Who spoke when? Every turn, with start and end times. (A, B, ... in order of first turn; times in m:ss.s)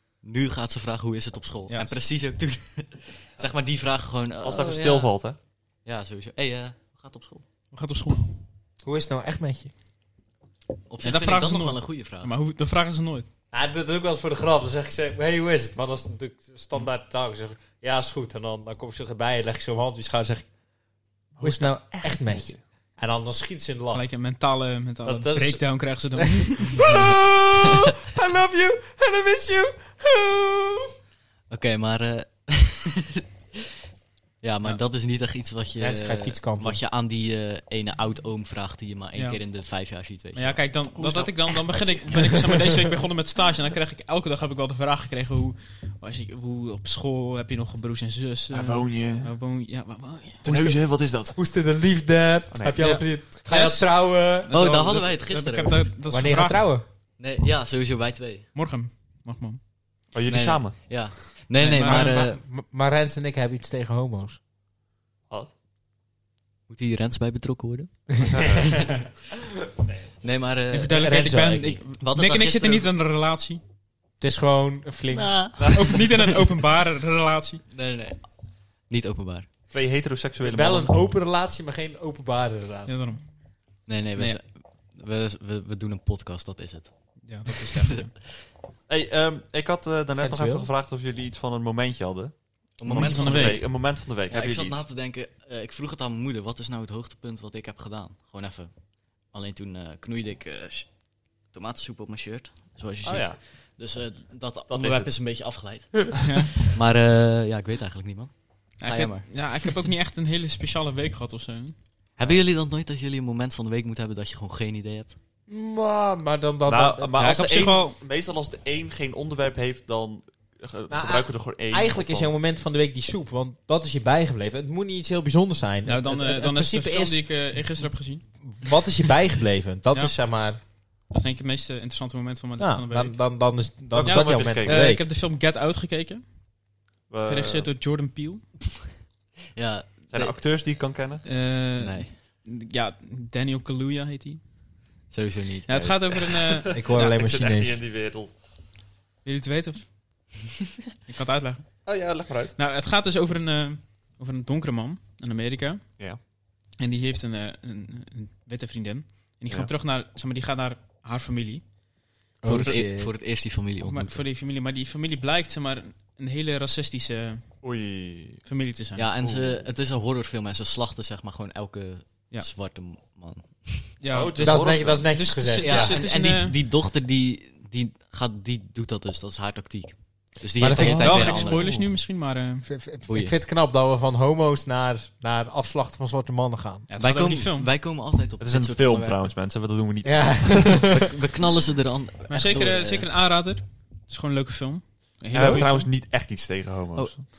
0:00.2-0:05.1 A
0:01.7-0:02.0 B
0:04.4-0:05.4 C
0:05.8-0:07.4 A
0:07.7-0:08.4 B
0:08.8-0:09.7 D
0:10.9-0:12.3 A
0:11.0-0:13.3 B
0:13.5-0:20.5 D
0:21.4-0:22.6 C
0:21.4-0:24.0 D
0:23.9-0:27.1 B
0:25.0-0:30.9 D
0:31.5-0:33.2 A
0:34.4-0:40.6 A
0:35.8-0:36.8 D
0:39.1-0:39.4 B
0:40.4-0:50.6 B
0:41.0-0:41.3 C
0:41.7-0:42.4 A
0:48.5-0:49.3 C
0:50.4-0:51.4 C
0:50.5-0:54.5 D
0:52.5-0:53.0 C
0:52.8-0:56.7 B
0:54.5-0:55.9 A
0:56.1-0:56.8 D
0:57.2-0:58.5 A
0:58.5-0:59.6 B
1:00.1-1:01.1 C
1:00.2-1:02.4 A
1:01.6-1:02.2 B
1:01.8-1:04.4 D
1:06.7-1:08.1 A
1:08.2-1:09.0 D
1:08.3-1:09.1 C
1:10.2-1:11.1 A
1:10.7-1:13.6 B
1:10.9-1:11.8 D
1:11.9-1:12.9 A
1:14.2-1:15.5 D
1:15.1-1:16.2 A
1:15.6-1:16.0 C
1:15.7-1:17.6 B
1:17.7-1:18.3 A
1:18.8-1:19.5 A
1:19.7-1:20.9 C
1:20.4-1:23.0 D
1:22.9-1:23.3 B
1:23.8-1:28.1 A
1:27.2-1:28.1 B
1:28.9-1:34.8 C
1:30.1-1:30.7 D
1:32.8-1:41.0 A
1:32.9-1:33.7 B
1:41.5-1:49.5 A
1:43.0-1:43.4 C
1:44.7-1:45.1 C
1:46.2-1:46.6 B
1:48.8-1:51.8 B
1:52.2-1:55.2 A
1:55.5-1:57.4 D
1:56.6-2:02.3 C
1:57.2-1:58.0 B
2:00.9-2:07.2 D
2:05.8-2:08.2 B
2:08.4-2:10.6 D
2:11.1-2:13.2 B
2:12.6-2:15.0 D
2:13.9-2:14.8 C
2:14.0-2:16.3 B
2:17.1-2:17.7 C
2:17.2-2:18.4 B
2:19.5-2:20.4 A
2:20.1-2:21.2 C
2:21.2-2:24.4 B
2:21.8-2:22.1 A
2:25.1-2:26.4 A
2:25.7-2:27.2 B
2:26.5-2:28.4 C
2:26.7-2:27.8 D
2:29.2-2:29.9 B
2:31.1-2:31.7 B
2:31.8-2:32.6 C
2:32.5-2:36.0 B
2:36.8-2:41.6 B
2:42.4-2:43.1 D
2:42.4-2:44.2 A
2:43.8-2:47.6 B
2:47.6-2:48.4 C
2:48.4-2:49.0 B
2:48.9-2:54.0 A
2:49.2-2:49.6 C
2:54.0-2:56.6 B
2:54.1-2:55.1 C
2:54.4-2:56.0 D
2:55.6-3:01.8 A
3:00.6-3:01.3 D
3:00.8-3:01.8 C
3:00.8-3:02.6 B
3:02.6-3:06.9 D
3:03.0-3:03.4 A
3:06.9-3:07.7 B
3:07.0-3:09.3 A
3:08.4-3:10.9 C
3:10.0-3:11.0 D
3:10.8-3:13.1 A
3:12.3-3:15.9 B
3:15.3-3:17.3 C